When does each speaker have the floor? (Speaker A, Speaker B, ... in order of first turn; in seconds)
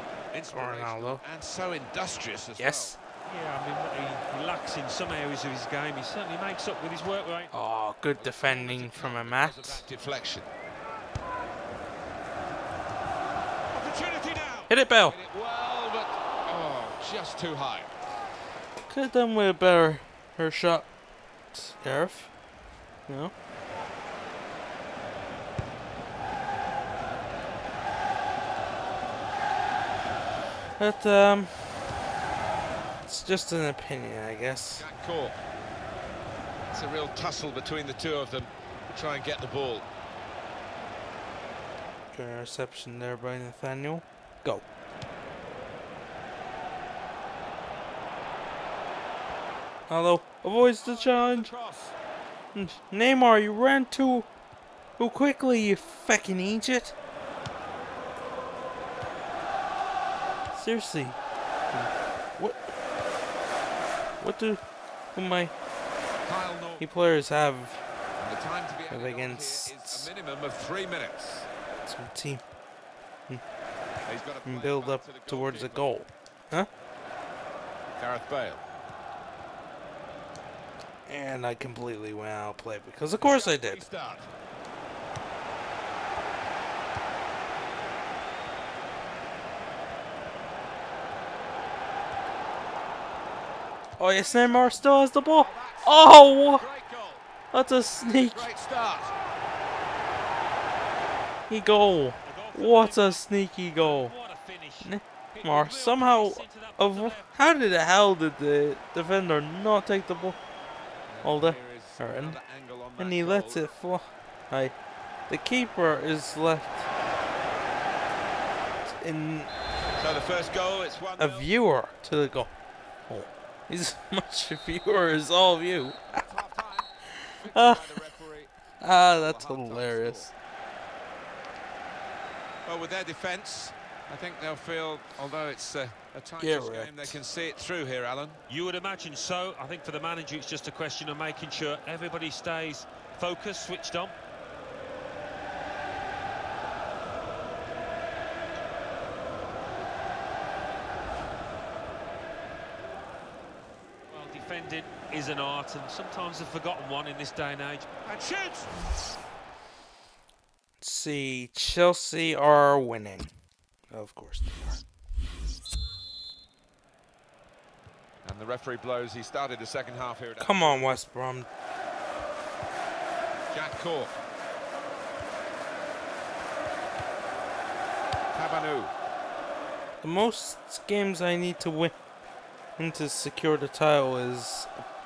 Speaker A: 0.3-2.9, 8.2-10.5, 13.7-17.9, 34.8-35.4, 36.7-39.9, 50.8-51.9, 66.2-66.9, 68.2-71.5, 74.0-75.9, 78.0-78.6, 83.2-84.3, 94.1-97.2, 98.0-99.1, 111.1-113.7, 120.0-121.5, 126.1-130.3, 132.6-138.4, 158.0-158.7, 168.2-171.0, 173.5-174.1, 178.3-178.9
Speaker B: 0.5-1.2, 2.6-3.0, 7.5-9.8, 14.7-15.2, 18.9-20.9, 21.5-22.3, 23.1-23.3, 30.8-31.9, 33.0-34.9, 42.1-44.6, 49.9-51.5, 52.5-54.3, 55.0-56.9, 60.5-61.2, 61.7-62.6, 64.2-64.6, 65.1-65.5, 66.8-67.8, 68.9-70.1, 71.8-72.4, 74.4-76.7, 81.0-83.8, 94.0-96.7, 97.5-98.5, 101.5-104.1, 104.8-110.4, 111.2-112.4, 113.0-114.7, 115.3-116.8, 118.8-119.5, 121.2-122.5, 123.1-126.2, 127.1-128.1, 128.8-130.3, 136.4-137.2, 160.8-163.3, 163.9-164.8, 170.4-171.5, 180.0-181.9, 182.8-184.8
Speaker C: 3.2-7.5, 102.2-103.2, 103.8-107.4, 138.5-144.1, 154.1-157.9